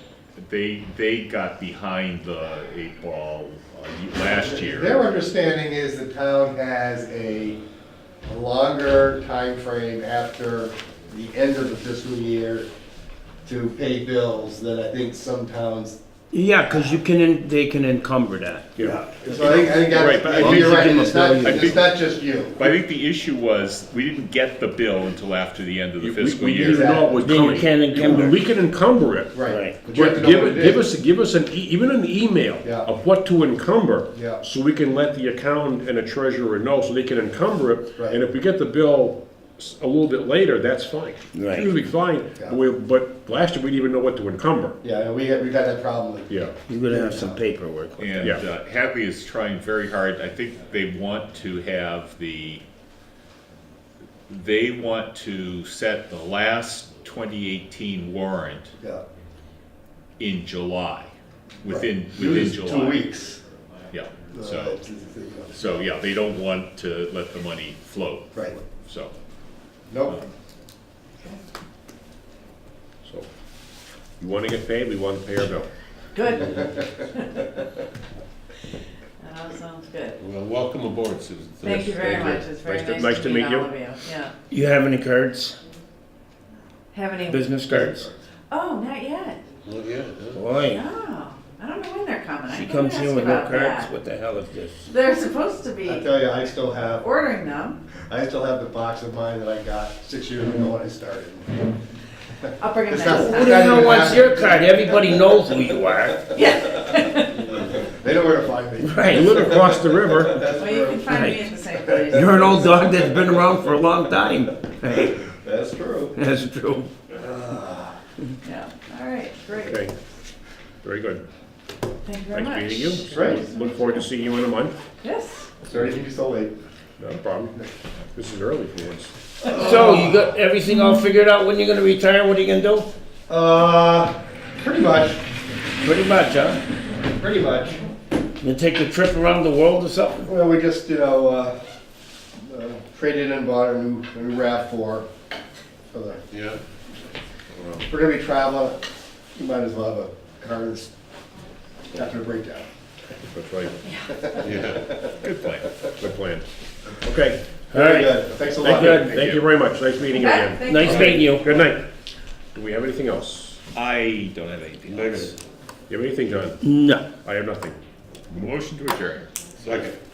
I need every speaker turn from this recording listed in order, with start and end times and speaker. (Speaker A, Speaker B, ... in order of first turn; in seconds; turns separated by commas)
Speaker A: 0.3-5.0, Speaker B: 4.2-7.6, Speaker B: 8.2-12.7, Speaker B: 13.4-16.0, Speaker C: 16.3-18.6, Speaker D: 18.7-20.8, Speaker B: 18.8-22.7, Speaker A: 19.9-20.5, Speaker C: 20.2-21.8, Speaker A: 21.4-22.0, Speaker A: 22.5-26.9, Speaker D: 26.0-44.8, Speaker B: 26.6-27.5, Speaker C: 27.2-28.4, Speaker B: 29.3-30.8, Speaker C: 29.5-29.8, Speaker B: 32.6-32.9, Speaker B: 34.1-34.4, Speaker C: 41.3-41.7, Speaker B: 44.8-46.3, Speaker D: 46.3-46.5, Speaker C: 46.7-48.4, Speaker B: 46.9-47.4, Speaker A: 48.0-52.6, Speaker A: 54.3-58.7, Speaker B: 58.8-59.0, Speaker A: 60.2-63.1, Speaker B: 61.7-63.4, Speaker A: 63.9-64.8, Speaker B: 64.3-65.9, Speaker A: 65.5-69.1, Speaker B: 68.3-68.6, Speaker B: 69.9-70.2, Speaker D: 74.2-75.7, Speaker E: 76.1-77.6, Speaker E: 79.2-80.2, Speaker F: 80.2-82.4, Speaker E: 81.6-84.3, Speaker D: 82.0-83.7, Speaker C: 84.5-85.5, Speaker E: 86.9-87.6, Speaker C: 87.3-88.1, Speaker B: 87.7-88.2, Speaker E: 88.5-89.5, Speaker F: 89.6-90.5, Speaker C: 90.3-90.8, Speaker E: 90.6-93.9, Speaker C: 92.5-94.8, Speaker E: 94.9-96.1, Speaker B: 95.8-97.1, Speaker E: 97.0-97.8, Speaker B: 98.0-101.6, Speaker E: 102.6-104.2, Speaker B: 102.9-105.3, Speaker C: 103.3-106.4, Speaker E: 106.3-107.5, Speaker B: 107.4-111.2, Speaker C: 108.8-109.6, Speaker D: 109.1-110.5, Speaker E: 110.5-112.8, Speaker C: 111.1-111.5, Speaker C: 112.1-115.2, Speaker B: 112.3-113.1, Speaker B: 115.2-116.2, Speaker C: 116.2-116.9, Speaker B: 117.1-118.0, Speaker E: 118.4-119.8, Speaker D: 119.7-119.9, Speaker D: 120.8-121.2, Speaker E: 122.0-124.0, Speaker D: 122.3-124.8, Speaker B: 123.1-123.4, Speaker E: 125.0-125.5, Speaker B: 125.6-126.5, Speaker D: 127.0-127.5, Speaker D: 128.1-129.1, Speaker C: 129.5-132.9, Speaker B: 129.5-130.2, Speaker B: 133.3-135.2, Speaker C: 135.8-136.6, Speaker B: 137.1-137.8, Speaker C: 138.4-140.3, Speaker B: 140.2-141.6, Speaker B: 142.4-145.1, Speaker B: 145.9-146.2, Speaker F: 146.3-146.6, Speaker B: 147.8-148.8, Speaker B: 149.3-150.9, Speaker B: 151.9-152.7, Speaker D: 153.3-153.8, Speaker E: 153.8-154.2, Speaker B: 154.1-155.1, Speaker F: 154.4-154.9, Speaker A: 155.1-155.7, Speaker D: 156.0-156.4, Speaker D: 157.0-157.5, Speaker B: 157.7-159.1, Speaker C: 157.7-158.2, Speaker A: 158.4-159.4, Speaker D: 158.6-161.8, Speaker C: 158.7-159.3, Speaker E: 160.1-161.4, Speaker C: 160.6-161.4, Speaker F: 160.8-161.2, Speaker D: 162.5-163.6, Speaker A: 163.7-165.3, Speaker F: 164.8-165.3, Speaker D: 165.9-166.6, Speaker C: 166.6-167.1, Speaker D: 167.2-167.8, Speaker A: 168.3-169.3, Speaker F: 169.6-170.0